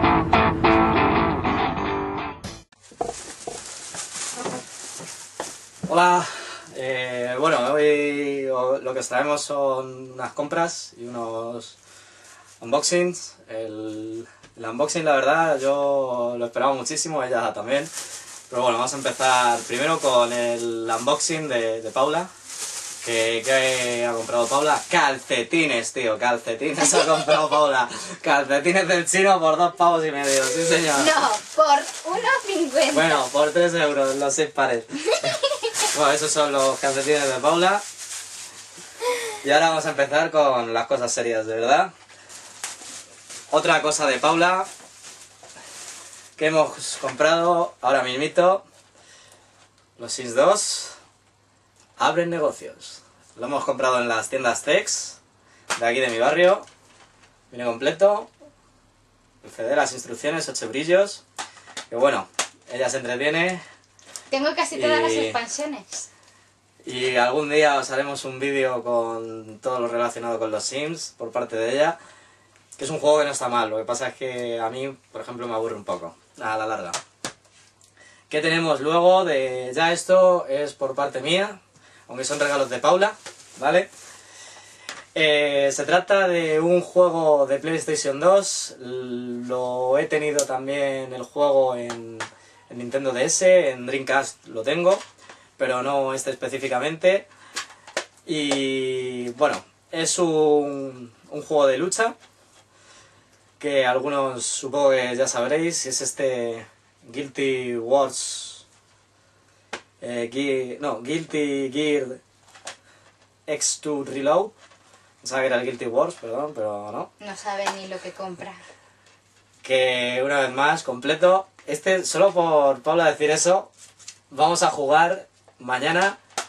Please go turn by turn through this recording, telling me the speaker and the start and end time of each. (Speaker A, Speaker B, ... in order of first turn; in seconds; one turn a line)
Speaker A: 5.9-11.8
Speaker A: 12.6-17.9
Speaker A: 18.5-22.3
Speaker A: 23.0-31.2
Speaker B: 26.8-27.4
Speaker B: 30.9-33.2
Speaker A: 32.9-35.0
Speaker B: 35.1-35.9
Speaker A: 35.8-37.8
Speaker A: 39.4-41.9
Speaker A: 43.5-44.7
Speaker A: 46.4-48.6
Speaker A: 50.0-51.0
Speaker A: 52.0-55.2
Speaker A: 55.8-56.6
Speaker A: 57.5-58.3
Speaker A: 59.4-61.2
Speaker A: 61.9-63.6
Speaker B: 64.3-66.1
Speaker A: 64.7-65.4
Speaker A: 66.8-72.0
Speaker A: 72.8-77.0
Speaker A: 78.3-83.9
Speaker A: 85.2-95.0
Speaker A: 95.6-97.3
Speaker A: 98.3-102.2
Speaker A: 103.6-108.6
Speaker A: 110.0-112.2
Speaker A: 113.5-114.5
Speaker A: 115.2-117.1
Speaker B: 117.2-118.6
Speaker A: 119.6-123.7
Speaker A: 124.3-126.2